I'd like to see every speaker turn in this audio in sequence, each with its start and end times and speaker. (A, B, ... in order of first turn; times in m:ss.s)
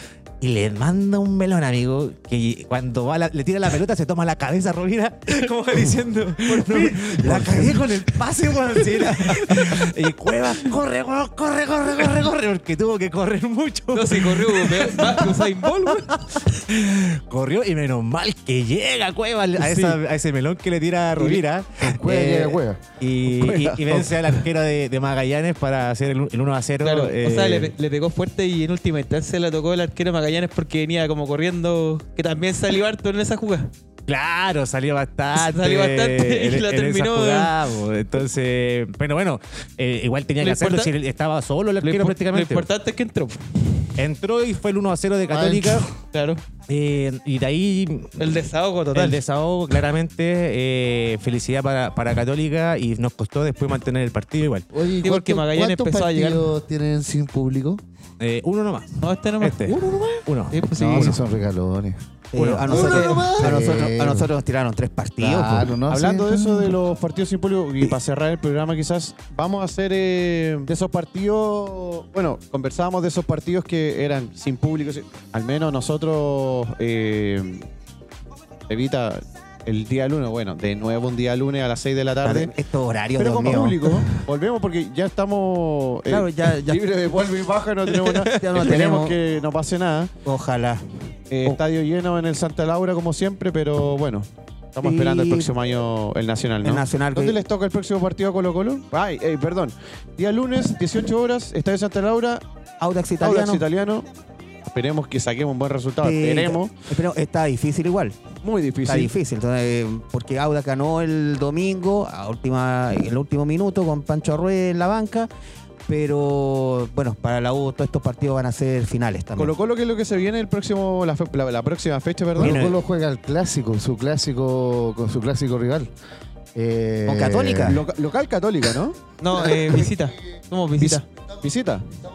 0:00.4-0:27.7 A
0:06.5-0:07.1 B
0:07.2-0:07.6 C
0:09.2-0:09.8 B
0:13.9-0:16.5 B
0:19.6-0:20.0 B
0:21.8-0:22.8 D
0:23.3-0:24.1 E
0:26.8-0:33.7 B
0:34.1-0:42.6 A
0:35.3-0:37.6 B
0:40.4-0:40.9 B
0:41.8-0:43.9 B
0:44.0-0:45.9 A
0:45.3-0:45.8 F
0:46.0-0:46.4 B
0:46.7-0:54.6 A
0:48.2-0:49.2 B
0:54.7-0:57.8 F
0:55.0-0:56.5 B
0:58.2-1:01.2 A
0:59.0-1:00.0 B
0:59.8-1:00.2 F
1:00.5-1:01.2 B
1:00.7-1:02.0 D
1:02.3-1:05.8 C
1:02.4-1:02.7 A
1:02.7-1:03.7 F
1:02.8-1:04.3 D
1:05.2-1:06.4 D
1:05.9-1:17.7 E
1:06.0-1:06.6 F
1:18.7-1:22.5 E
1:22.2-1:24.2 C
1:23.2-1:30.1 E
1:26.1-1:26.8 C
1:28.2-1:29.2 C
1:30.2-1:30.8 C
1:31.3-1:42.4 E
1:34.8-1:35.5 C
1:36.6-1:37.4 C
1:42.8-1:43.6 C
1:43.2-1:44.1 E
1:44.7-1:46.8 E
1:46.0-1:48.2 C
1:48.4-1:49.1 E
1:48.8-1:55.3 C
1:55.9-1:59.5 C
1:59.4-2:02.7 E
2:02.4-2:05.9 D
2:02.4-2:02.7 A
2:06.5-2:07.8 D
2:07.0-2:07.8 C
2:07.6-2:09.0 E
2:09.2-2:11.0 B
2:10.8-2:11.8 E